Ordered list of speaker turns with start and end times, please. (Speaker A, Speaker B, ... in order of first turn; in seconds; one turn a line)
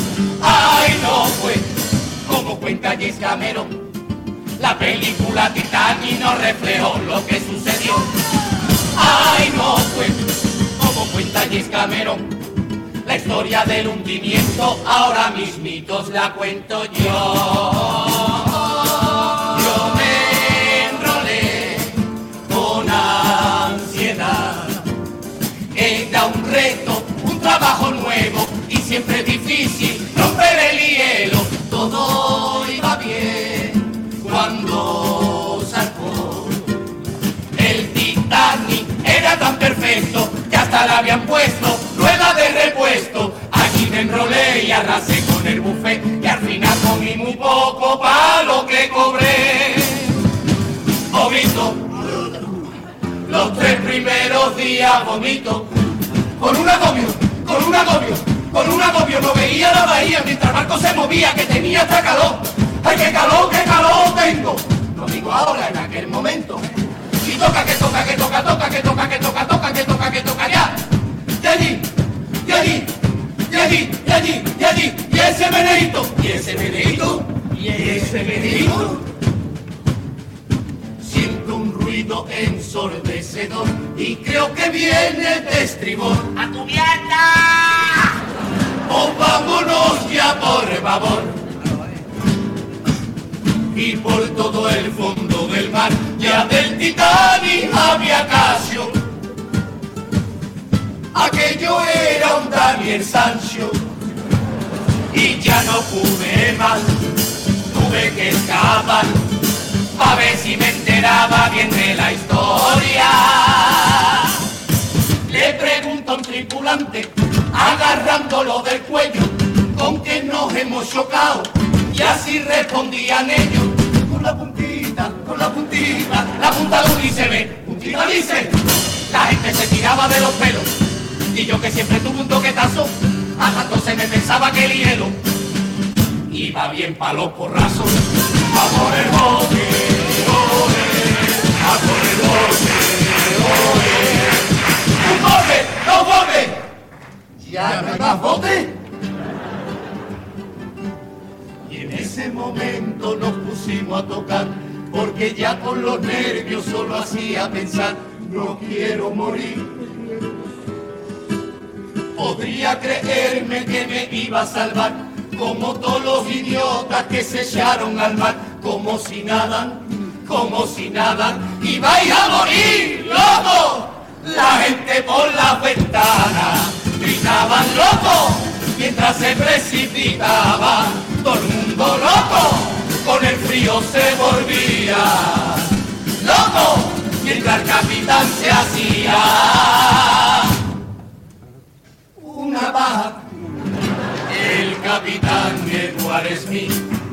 Speaker A: 0.4-3.8
Speaker A: 4.6-8.1
Speaker A: 8.9-12.3
Speaker A: 13.0-24.9
Speaker A: 25.7-36.7
Speaker A: 37.5-50.2
Speaker A: 51.1-52.3
Speaker A: 53.2-55.7
Speaker A: 56.4-66.7
Speaker A: 67.2-70.8
Speaker A: 71.4-71.9
Speaker A: 72.4-72.9
Speaker A: 73.5-79.0
Speaker A: 81.0-88.0
Speaker A: 88.8-91.4
Speaker A: 93.7-99.0
Speaker A: 101.1-103.8
Speaker A: 105.1-107.0
Speaker A: 107.7-109.3
Speaker A: 110.0-114.4
Speaker A: 115.3-130.7
Speaker A: 131.3-135.2
Speaker A: 136.3-146.7
Speaker A: 147.4-148.8
Speaker A: 151.7-159.8
Speaker A: 162.2-190.5
Speaker A: 192.2-193.2
Speaker A: 194.3-196.8